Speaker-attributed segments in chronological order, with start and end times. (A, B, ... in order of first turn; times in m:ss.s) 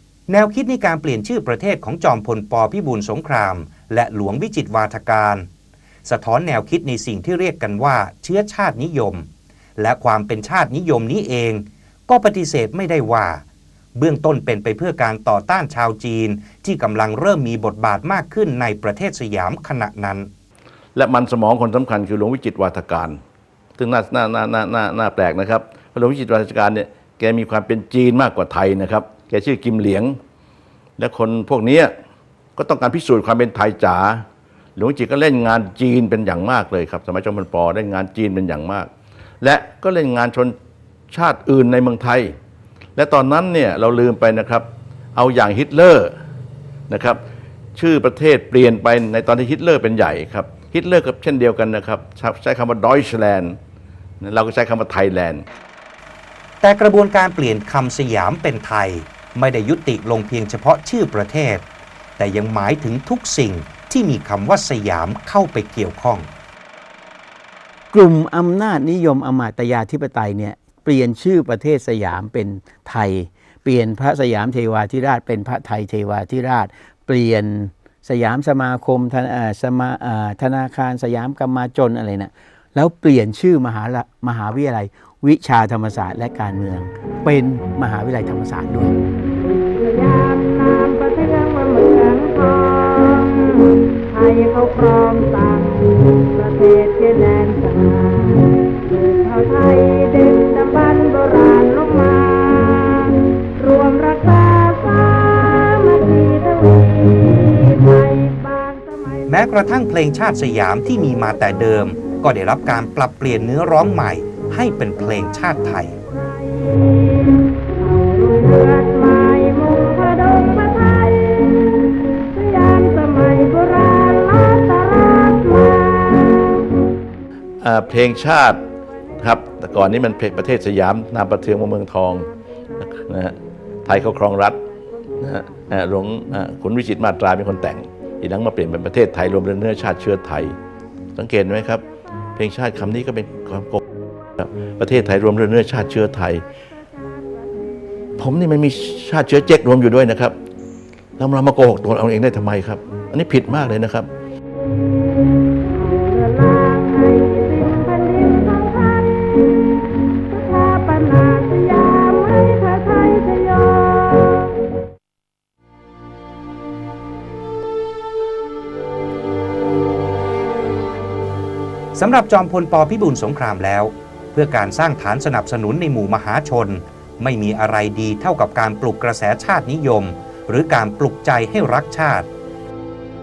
0:00.3-0:05.4 A
0:06.0-0:09.2 A
0:09.8-0:13.4 A
0:14.0-0:20.3 A
0:20.9-0:23.2 B
0:23.8-0:30.2 B
0:31.0-0:31.9 B
0:32.6-0:34.2 B
0:34.8-0:38.9 B
0:39.4-0:40.6 B
0:41.1-0:42.3 B
0:43.0-0:46.1 B
0:46.9-0:47.2 B
0:47.8-0:53.6 B
0:54.2-0:55.4 B
0:56.6-1:01.6 A
1:02.2-1:06.3 A
1:07.9-1:28.9 C
1:29.8-1:49.3 D
1:49.3-1:55.9 A
1:56.0-2:06.6 D
2:07.6-2:08.6 B
2:09.2-2:12.3 B
2:12.8-2:14.6 B
2:15.2-2:20.5 B
2:21.2-2:21.8 B
2:22.4-2:23.8 B
2:24.4-2:26.4 B
2:28.2-2:30.4 B
2:31.2-2:34.1 B
2:35.7-2:39.5 D
2:40.3-2:44.5 D
2:51.9-3:02.3 A